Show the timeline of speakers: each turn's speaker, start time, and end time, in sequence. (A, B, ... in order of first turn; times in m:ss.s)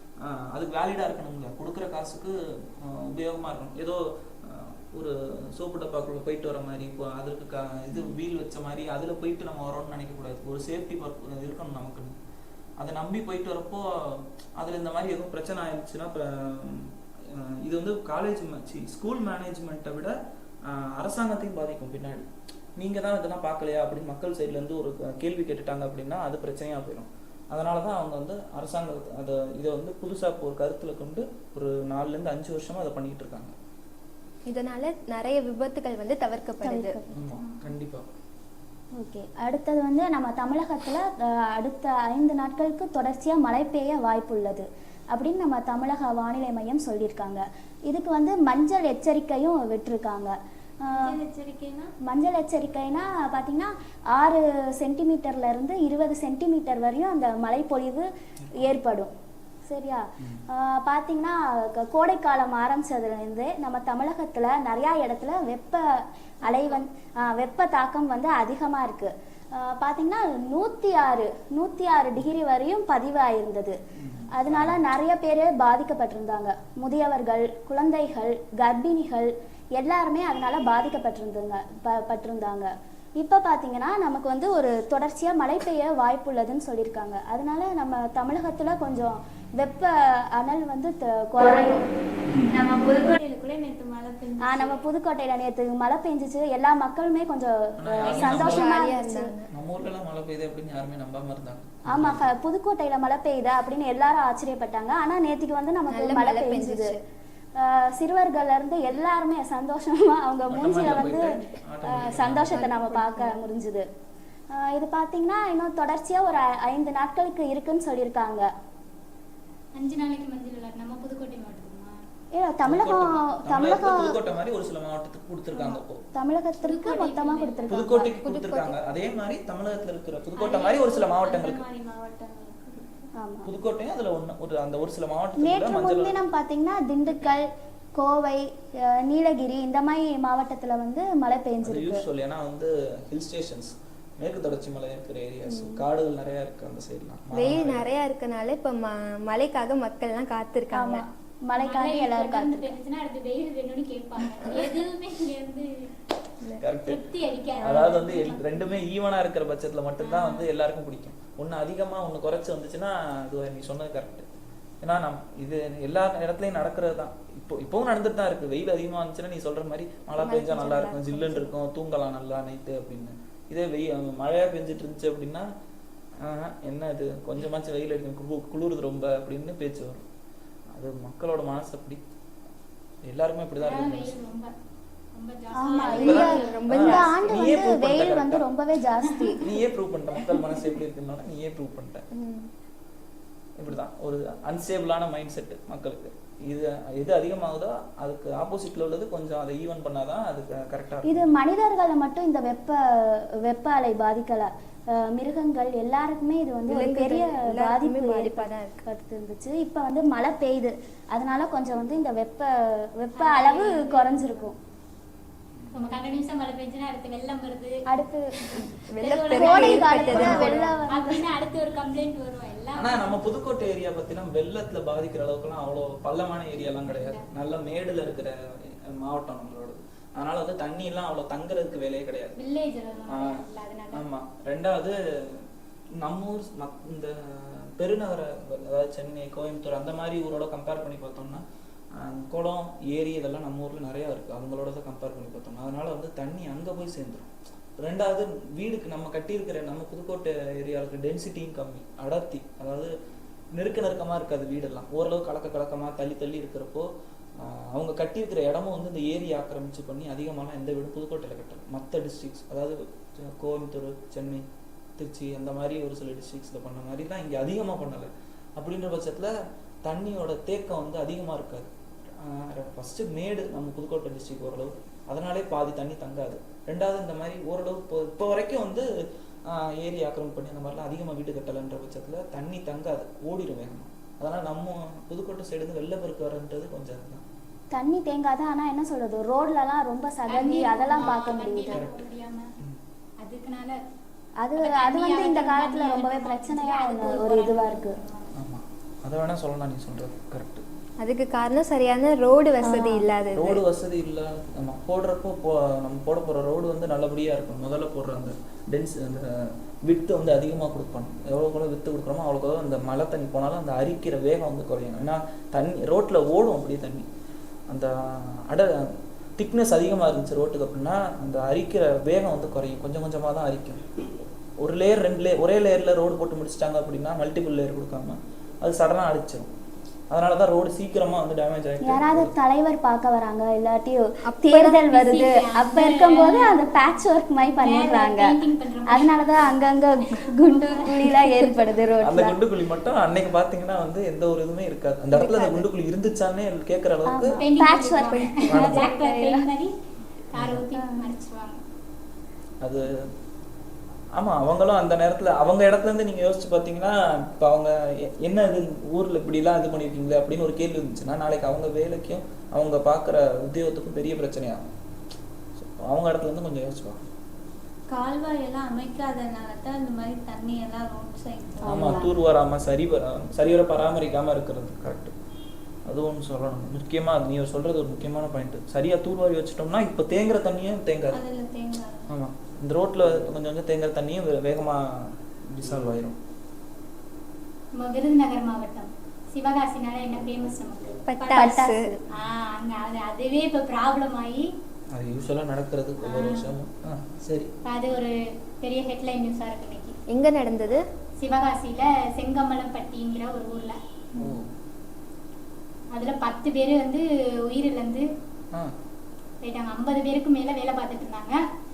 0:00.2-0:12.2 A
0:12.8-0:20.2 A
0:20.7-0:33.6 A
0:34.5-0:37.0 B
0:36.6-0:37.2 C
0:37.1-0:38.0 A
0:37.4-0:37.7 D
0:39.0-0:51.1 C
0:50.9-0:51.9 E
0:52.0-0:59.1 C
0:58.4-0:58.7 A
0:59.7-1:13.8 C
1:00.2-1:00.4 A
1:06.4-1:06.8 D
1:14.0-1:14.8 A
1:14.4-1:31.8 C
1:32.3-1:32.6 A
1:32.5-1:34.8 E
1:34.4-1:39.3 C
1:37.8-1:38.7 A
1:38.2-1:39.5 B
1:39.5-1:42.3 A
1:41.9-1:47.0 C
1:45.9-1:47.0 B
1:47.6-1:51.3 C
1:50.5-1:52.7 A
1:51.9-1:53.9 C
1:52.5-1:53.4 B
1:54.5-1:58.5 C
1:59.8-2:02.0 D
2:02.4-2:04.2 C
2:02.6-2:06.0 A
2:06.2-2:08.1 C
2:06.6-2:08.0 D
2:07.7-2:11.6 A
2:08.2-2:08.7 B
2:10.4-2:13.1 E
2:13.2-2:13.5 C
2:13.4-2:16.3 A
2:15.4-2:17.5 C
2:18.0-2:22.0 C
2:21.6-2:27.9 A
2:25.5-2:25.8 C
2:27.3-2:31.0 B
2:30.7-2:32.8 C
2:31.6-2:35.9 D
2:34.4-2:34.7 B
2:36.6-2:37.1 A
2:36.8-2:38.8 D
2:37.6-2:38.0 B
2:37.6-2:55.5 A
2:40.0-2:40.5 D
2:50.2-2:51.5 B
2:56.2-3:00.0 A
3:00.7-3:02.0 A
3:03.0-3:04.2 A
3:03.6-3:04.5 D
3:05.1-3:06.8 D
3:05.5-3:09.4 C
3:05.8-3:07.3 B
3:06.0-3:08.5 A
3:09.0-3:09.5 D
3:09.4-3:12.1 A
3:12.1-3:12.5 B
3:13.6-3:21.4 A
3:21.0-3:34.6 C
3:26.7-3:28.8 B
3:33.2-3:34.5 D
3:35.6-3:36.0 A
3:35.7-3:37.8 D
3:37.9-3:38.6 C
3:38.6-3:40.7 B
3:38.6-3:43.2 D
3:39.0-3:40.7 E
3:39.3-3:41.3 C
3:42.7-3:52.4 A
3:46.8-3:47.2 D
3:52.4-3:54.0 D
3:53.1-3:53.4 A
3:53.9-4:12.9 A
4:13.6-4:24.5 A
4:25.0-4:29.3 A
4:29.8-4:38.9 A
4:39.5-4:47.2 A
4:47.7-4:51.8 C
4:50.3-4:52.5 D
4:51.7-4:52.1 A
4:53.2-4:53.8 D
4:54.4-4:58.0 C
4:54.6-4:58.3 D
4:58.4-5:00.7 A
5:01.0-5:03.6 B
5:02.6-5:03.0 C
5:03.4-5:17.1 A
5:17.7-5:23.9 A
5:24.6-5:29.5 A
5:30.1-5:32.3 A
5:31.8-5:42.4 C
5:34.3-5:34.8 B
5:34.9-5:36.7 D
5:37.4-5:39.5 D
5:40.1-5:41.2 D
5:42.0-5:47.4 A
5:45.1-5:45.6 B
5:47.1-5:49.5 C
5:47.4-5:49.7 D
5:48.1-5:48.8 B
5:50.3-5:51.6 D
5:50.4-5:50.7 A
5:50.7-5:51.1 C
5:52.6-5:53.1 A
5:54.2-6:04.6 A
6:05.6-6:07.0 A
6:07.9-6:12.0 E
6:11.6-6:12.1 C
6:11.7-6:15.2 A
6:15.9-6:21.2 A
6:21.1-6:22.1 E
6:22.1-6:26.2 A
6:27.8-6:34.5 D
6:31.1-6:32.0 B
6:31.3-6:31.8 C
6:34.9-6:37.5 A
6:36.0-6:36.5 D
6:37.7-6:40.0 D
6:40.1-6:40.8 B
6:41.2-6:43.8 D
6:44.2-6:44.5 A
6:45.9-6:48.1 D
6:49.4-6:51.4 D